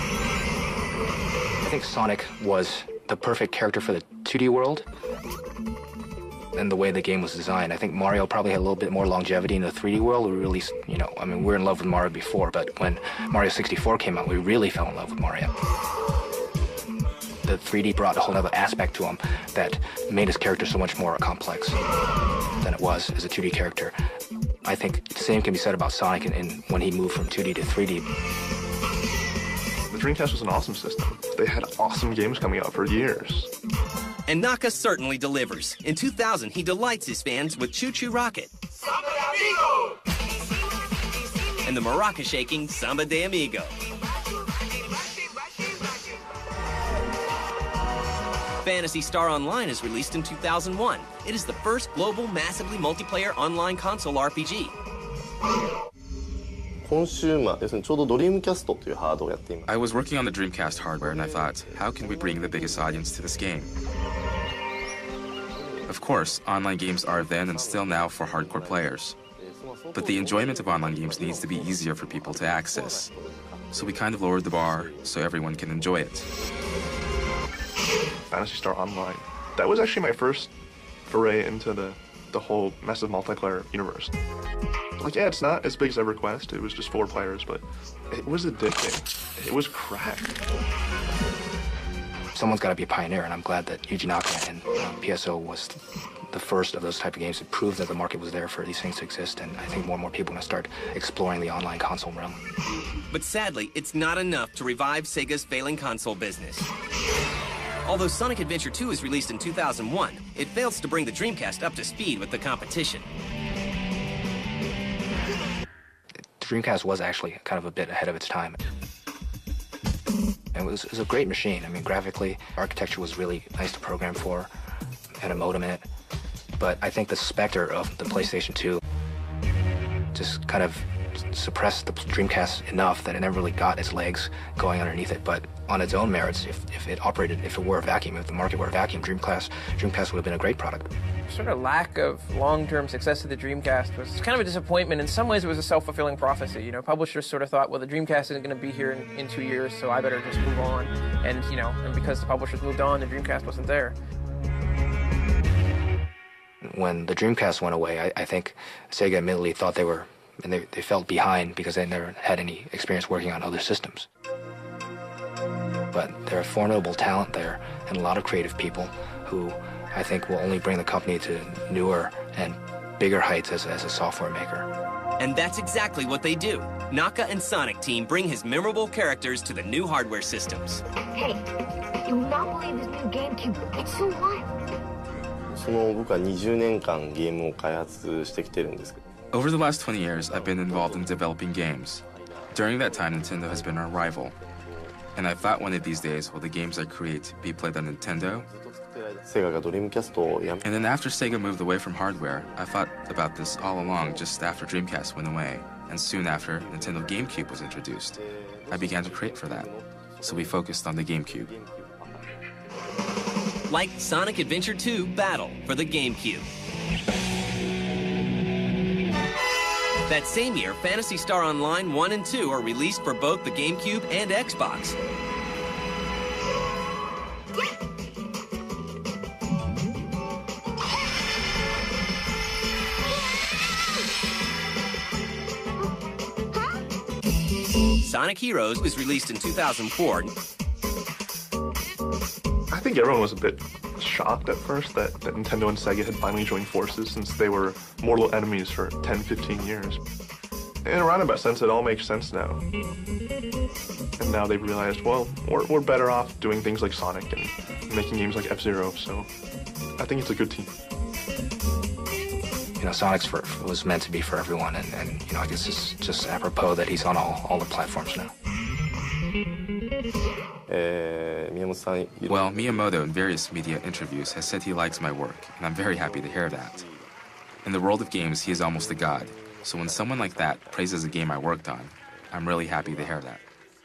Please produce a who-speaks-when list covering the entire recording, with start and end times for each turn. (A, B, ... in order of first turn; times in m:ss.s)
0:01.6-0:04.9 A
0:06.5-0:15.5 A
0:17.4-0:21.8 A
0:22.6-0:24.0 A
0:24.6-0:28.1 A
0:29.9-0:33.5 B
0:34.3-0:38.5 C
0:41.6-0:43.7 C
0:48.6-0:54.7 C
0:56.8-0:59.8 D
0:59.7-1:03.7 E
1:01.0-1:03.7 D
1:05.6-1:06.2 D
1:05.9-1:09.2 E
1:07.2-1:15.0 D
1:09.9-1:13.1 E
1:13.7-1:16.3 E
1:18.3-1:20.5 B
1:21.1-1:24.1 B
1:25.0-1:30.4 B
1:32.3-1:42.4 A
1:43.1-1:46.7 C
1:47.8-1:53.1 C
1:56.4-1:58.6 A
2:00.5-2:04.5 A
2:05.2-2:05.9 A
2:06.6-2:08.8 A
2:10.1-2:20.9 A
2:21.3-2:34.0 F
2:36.6-2:44.1 A
2:45.9-2:54.7 A
2:55.2-3:00.8 C
3:01.1-3:01.4 G
3:02.0-3:04.5 G
3:05.5-3:09.0 D
3:09.3-3:14.4 E
3:10.3-3:11.1 D
3:12.6-3:14.5 D
3:15.2-3:18.5 E
3:18.5-3:20.8 D
3:20.6-3:29.7 E
3:23.7-3:24.4 D
3:26.6-3:32.3 D
3:30.2-3:31.5 E
3:33.7-3:36.5 C
3:40.1-3:45.0 C
3:55.8-3:56.8 G
3:58.0-4:00.3 C
4:02.7-4:10.0 B
4:10.8-4:12.6 B
4:14.2-4:19.3 B
4:20.0-4:20.8 B
4:22.8-4:28.3 A
4:30.7-4:33.0 D
4:32.3-4:36.8 E
4:34.4-4:34.7 D
4:35.8-4:37.1 D
4:37.6-4:43.4 E
4:38.9-4:40.8 D